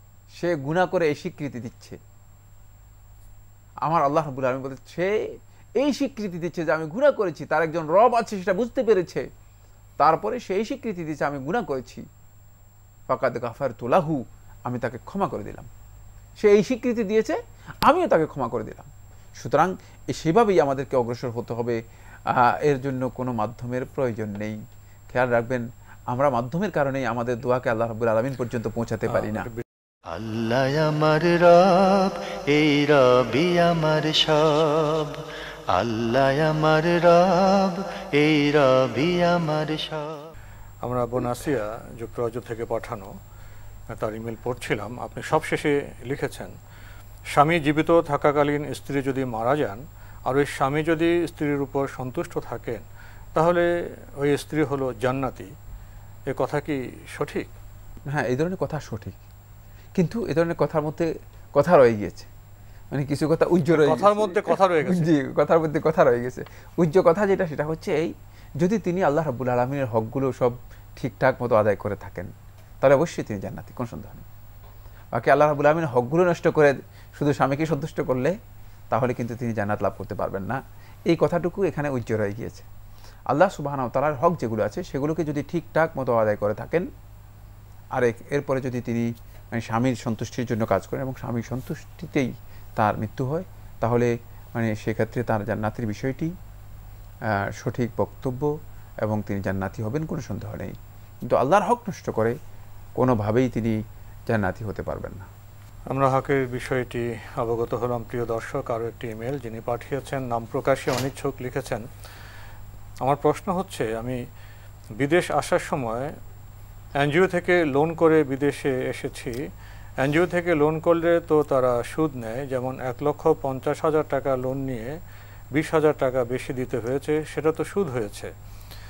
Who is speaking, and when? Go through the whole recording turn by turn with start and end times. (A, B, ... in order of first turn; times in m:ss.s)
0:00.4-0:02.0 A
0:03.8-0:09.3 A
0:10.0-0:12.1 A
0:13.1-0:15.7 A
0:16.4-0:24.6 A
0:25.1-0:29.5 A
0:29.1-0:29.6 B
0:30.1-0:35.2 C
0:35.7-0:40.3 C
0:40.8-0:43.2 B
0:43.9-0:46.5 B
0:47.3-0:52.8 B
0:53.4-0:55.5 B
0:56.3-0:57.5 B
0:58.1-0:59.2 A
1:00.0-1:02.3 A
1:02.9-1:14.3 A
1:03.7-1:05.1 B
1:15.1-1:18.4 A
1:18.9-1:22.7 A
1:23.3-1:26.9 A
1:27.9-1:36.3 A
1:37.3-1:42.4 A
1:43.0-1:45.3 A
1:45.9-1:51.8 B
1:53.0-1:54.2 B
1:55.0-1:56.2 B
1:57.0-1:59.4 B
2:00.0-2:05.0 B
2:05.5-2:08.3 B